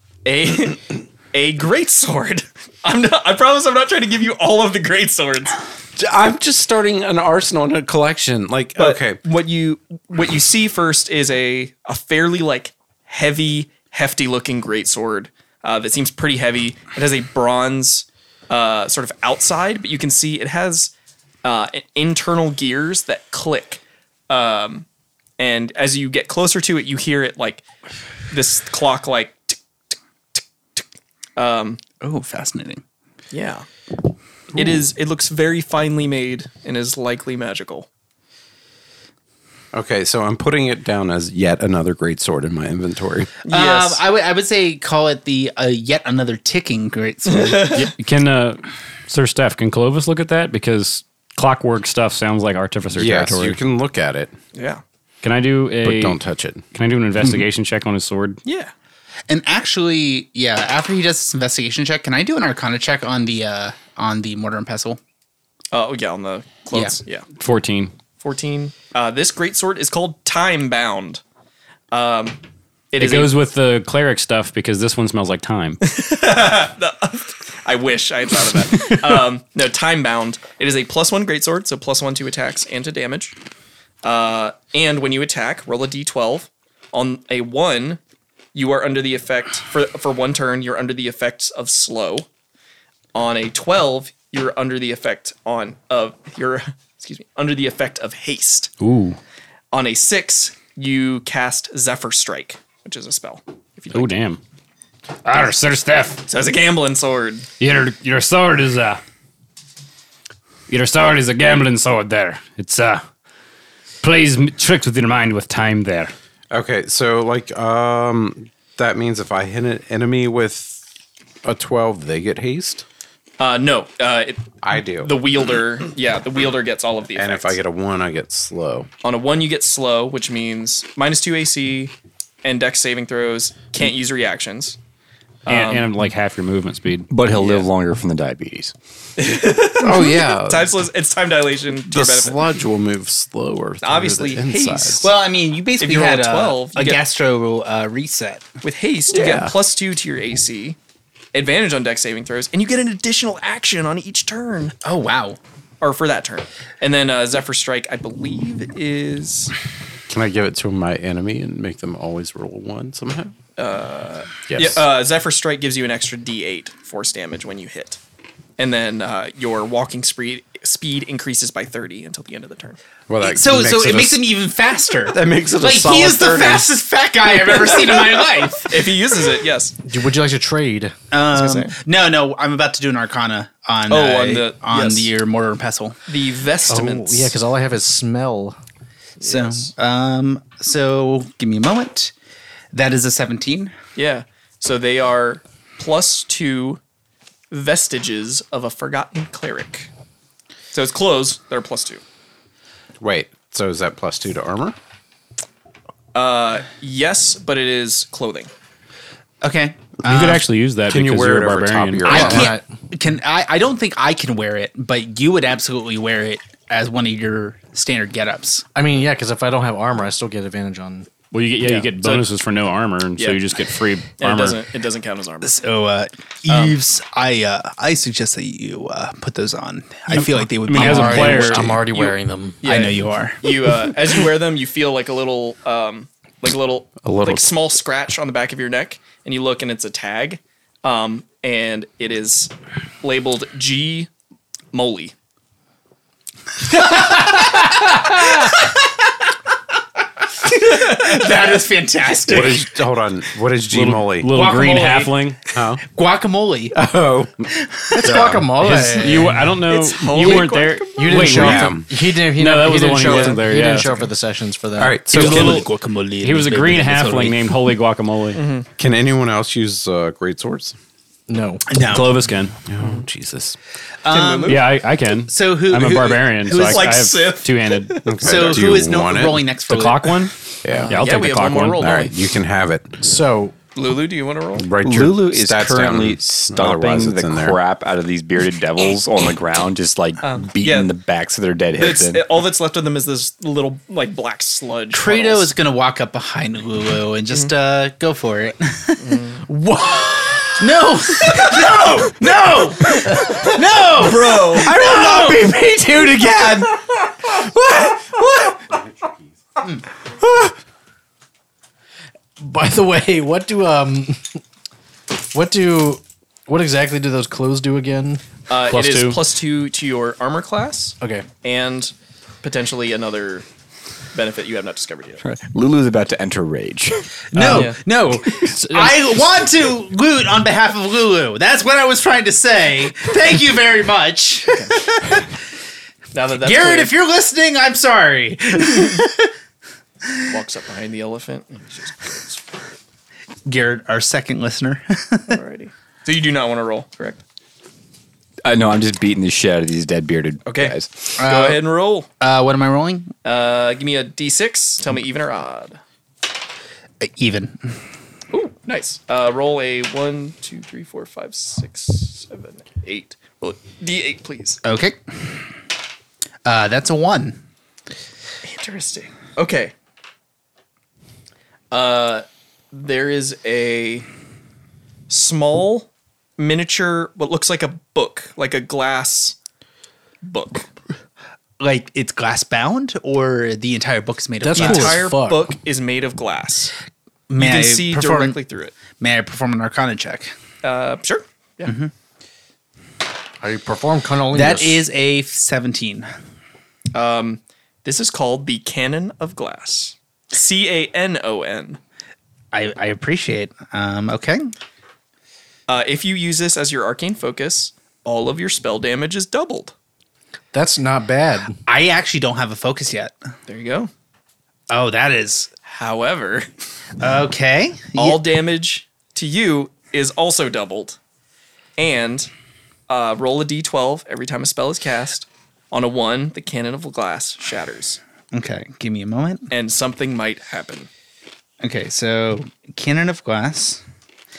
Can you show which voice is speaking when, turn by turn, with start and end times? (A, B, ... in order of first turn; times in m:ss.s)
0:00.2-0:05.6 A
0:06.0-0:09.2 B
0:08.8-0:20.9 A
0:21.4-0:24.9 A
0:25.4-0:27.6 A
0:28.3-0:29.6 A
0:30.4-0:30.8 A
0:31.4-0:31.8 A
0:32.0-0:32.8 C
0:33.3-0:33.7 A
0:34.5-0:37.9 A
0:39.7-0:43.3 B
0:43.4-0:44.0 A
0:43.5-0:47.9 C
0:47.3-0:47.9 A
0:47.8-0:53.6 D
0:52.9-0:54.3 B
0:54.6-0:54.8 A
0:55.2-0:56.2 D
0:55.8-0:56.6 B
0:56.7-0:58.4 D
0:57.2-0:57.4 B
0:58.4-0:58.7 A
0:59.3-1:05.0 C
1:05.7-1:07.3 A
1:07.4-1:07.9 D
1:08.2-1:11.2 A
1:11.9-1:12.4 A
1:12.9-1:13.3 A
1:13.0-1:15.8 D
1:15.8-1:23.4 A
1:24.0-1:28.0 A
1:28.5-1:32.3 A
1:33.1-1:38.7 A
1:38.8-1:39.2 D
1:39.7-1:44.2 A
1:43.9-1:44.4 D
1:45.2-1:46.2 D
1:46.3-1:47.5 A
1:47.6-1:49.0 D
1:50.7-1:53.0 D
1:54.0-1:56.1 D
1:56.5-2:00.8 B
2:01.4-2:02.8 B
2:03.4-2:07.6 A
2:04.6-2:05.2 B
2:07.2-2:08.9 B
2:09.0-2:11.9 A
2:12.4-2:14.8 A
2:15.5-2:15.9 A
2:15.5-2:17.1 D
2:17.1-2:18.7 E
2:17.3-2:17.7 A
2:19.2-2:22.5 A
2:19.8-2:20.8 B
2:21.9-2:25.1 B
2:23.8-2:25.1 A
2:25.0-2:28.4 C
2:25.8-2:27.0 A
2:28.6-2:30.8 A
2:29.1-2:29.5 B
2:31.3-2:34.8 A
2:34.8-2:35.4 C
2:35.8-2:39.5 A
2:40.1-2:43.3 B
2:43.6-2:48.0 A
2:44.5-2:44.9 B
2:48.6-2:52.8 A
2:53.1-2:54.3 B
2:53.2-2:58.8 C
2:55.1-2:56.8 B
2:58.6-2:59.8 A
2:59.9-3:00.9 F
3:01.1-3:06.0 C
3:01.3-3:01.8 A
3:03.9-3:05.1 A
3:06.1-3:07.4 A
3:06.7-3:08.6 F
3:09.2-3:09.7 A
3:09.2-3:12.1 C
3:12.7-3:13.8 C
3:14.0-3:16.8 A
3:17.5-3:19.9 A
3:20.7-3:22.0 A
3:23.0-3:24.8 B
3:26.1-3:28.5 A
3:29.4-3:30.4 C
3:30.0-3:32.3 D
3:30.9-3:32.6 B
3:32.1-3:38.6 C
3:32.1-3:32.6 F
3:38.8-3:41.1 F
3:41.3-3:44.6 D
3:41.6-3:42.3 A
3:43.2-3:43.4 A
3:44.2-3:45.6 A
3:45.4-3:51.8 C
3:46.5-3:46.8 A
3:50.2-3:51.8 D
3:50.7-3:52.7 F
3:51.9-4:02.5 A
3:52.6-3:53.4 C
3:57.0-3:57.5 B
4:03.0-4:04.1 A
4:04.7-4:05.1 A
4:06.7-4:08.9 C
4:10.4-4:12.7 C
4:10.8-4:11.6 A
4:12.3-4:14.3 B
4:13.7-4:15.4 D
4:14.3-4:16.8 C
4:15.5-4:15.8 B
4:16.7-4:17.4 B
4:17.5-4:19.3 C
4:18.0-4:19.4 F
4:18.0-4:18.3 B
4:18.8-4:23.9 D
4:19.6-4:21.4 A
4:21.0-4:25.0 F
4:21.2-4:21.9 B
4:23.0-4:24.1 A
4:24.8-4:25.6 B
4:25.1-4:27.4 C
4:25.1-4:25.7 D
4:26.2-4:28.4 D
4:28.3-4:28.7 A
4:28.8-4:30.8 B
4:31.3-4:31.6 F
4:31.7-4:32.2 C
4:31.8-4:32.5 D
4:32.7-4:33.6 B
4:34.0-4:34.7 C
4:34.1-4:34.7 A
4:34.5-4:38.0 D
4:35.3-4:37.0 C
4:36.6-4:38.6 A
4:38.1-4:39.5 B
4:38.2-4:40.3 C
4:39.7-4:41.9 D
4:40.6-4:41.0 B
4:40.7-4:42.1 A
4:41.8-4:43.0 B
4:43.0-4:43.6 F
4:43.8-4:44.7 A
4:44.6-4:47.6 B
4:44.8-4:52.2 E
4:50.2-4:50.9 A
4:51.8-4:55.5 A
4:54.9-4:59.0 C
4:59.0-4:59.4 A
4:59.5-5:00.6 F
5:00.6-5:05.7 C
5:03.1-5:03.4 F
5:03.5-5:04.8 A
5:12.4-5:14.4 F
5:15.2-5:18.2 F
5:18.5-5:23.5 A
5:18.7-5:19.2 D
5:21.0-5:21.3 F
5:24.1-5:25.2 A
5:25.2-5:27.1 E
5:27.3-5:35.3 C
5:27.4-5:27.7 D
5:27.4-5:27.8 A
5:28.4-5:29.1 D
5:34.5-5:34.8 A
5:36.1-5:36.9 A
5:36.4-5:39.3 C
5:40.3-5:42.4 A
5:43.5-5:45.4 C
5:45.3-5:47.2 A
5:48.4-5:51.1 E
5:50.4-5:52.1 A
5:51.2-5:51.7 C
5:52.2-5:53.1 C
5:53.2-5:55.8 A
5:57.0-5:57.6 C
5:58.3-6:04.6 A
6:04.6-6:05.0 C
6:06.4-6:07.4 C
6:08.4-6:09.7 A
6:11.7-6:14.1 A
6:15.1-6:19.4 A
6:20.2-6:20.7 A
6:21.6-6:25.0 C
6:24.4-6:25.5 F
6:24.5-6:26.7 A
6:27.3-6:28.4 C
6:27.4-6:28.7 A
6:28.9-6:30.3 C
6:30.6-6:31.8 A
6:31.6-6:31.9 C
6:33.4-6:34.9 F
6:34.3-6:36.1 C
6:36.9-6:41.8 A
6:42.5-6:44.5 C
6:45.7-6:49.7 A
6:50.5-6:51.6 F
6:51.7-6:53.1 C
6:53.5-6:53.9 A
6:54.7-6:55.5 C
6:55.7-6:56.5 A
6:57.0-6:58.2 C
6:58.0-7:01.0 A
7:01.8-7:02.3 A
7:02.9-7:08.0 A
7:08.3-7:09.5 C
7:09.5-7:10.9 A
7:11.6-7:13.8 C